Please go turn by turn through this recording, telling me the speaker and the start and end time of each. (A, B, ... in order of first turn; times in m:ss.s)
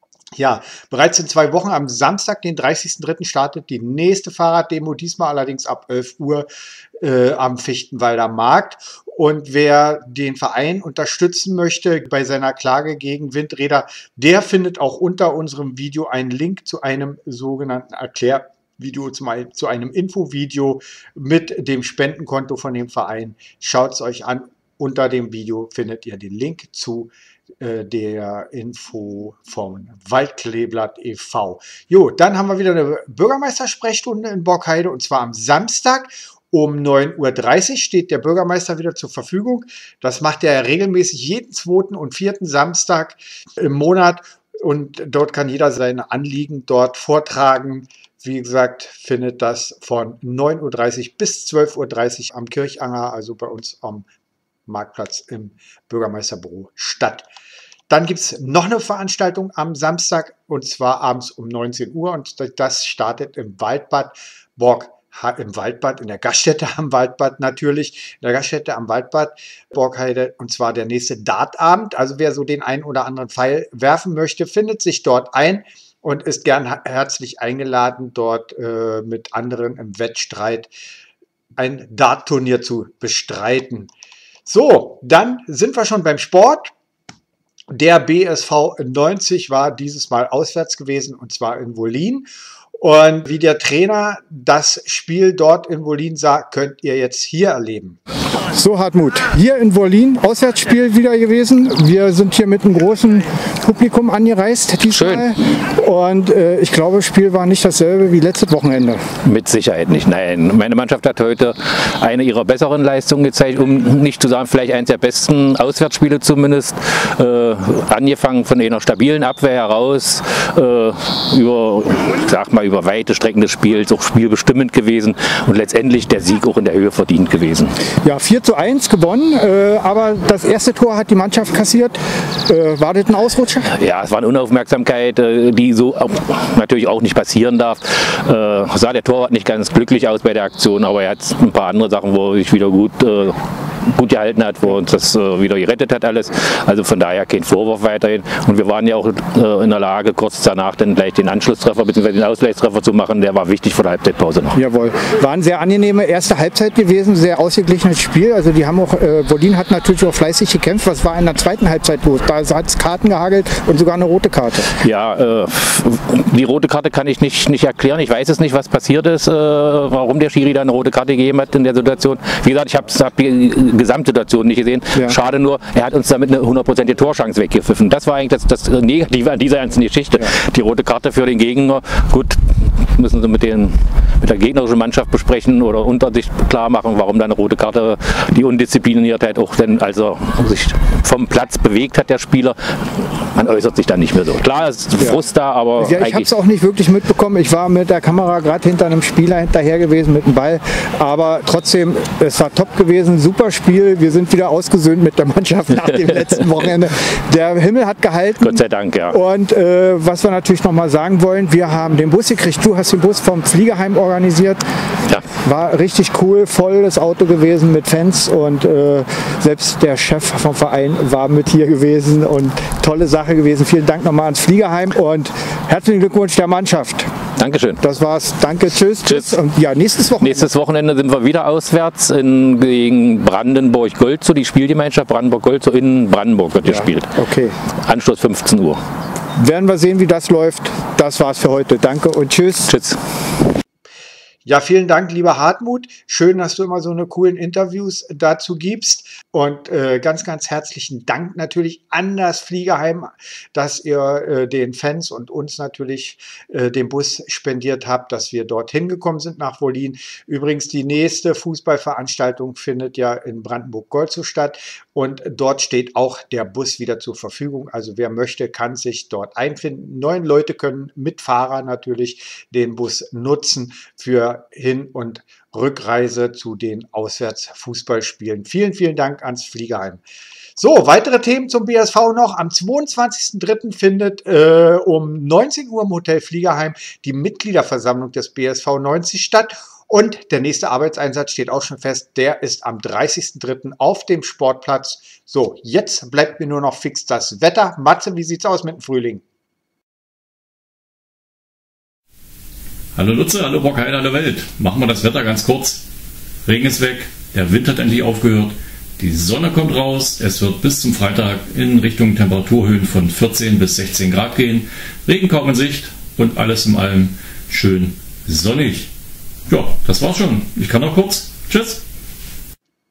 0:00.3-0:54.1 A
0:54.7-0:57.3 A
0:57.9-1:20.7 A
1:21.6-1:23.9 A
1:24.4-1:26.7 A
1:27.7-1:32.3 A
1:32.8-1:38.0 A
1:38.5-1:39.8 A
1:39.2-1:45.0 B
1:44.9-1:45.3 C
1:45.6-1:49.0 B
1:49.2-2:07.7 C
2:08.0-2:13.6 B
2:13.6-2:34.6 C
2:34.6-2:44.7 B
2:44.8-3:16.3 C
3:15.8-3:28.6 B
3:28.4-3:29.2 C
3:29.1-3:34.6 B
3:35.4-3:47.1 B
3:47.4-3:47.8 C
3:47.8-3:50.4 B
3:49.1-3:49.3 C
3:50.2-3:57.1 C
3:57.8-3:58.8 C
3:59.4-4:02.7 B
4:02.7-4:03.0 C
4:04.4-4:40.0 A
4:40.6-4:59.2 A
5:03.0-5:05.8 D
5:06.5-5:18.9 D
5:19.5-5:21.8 D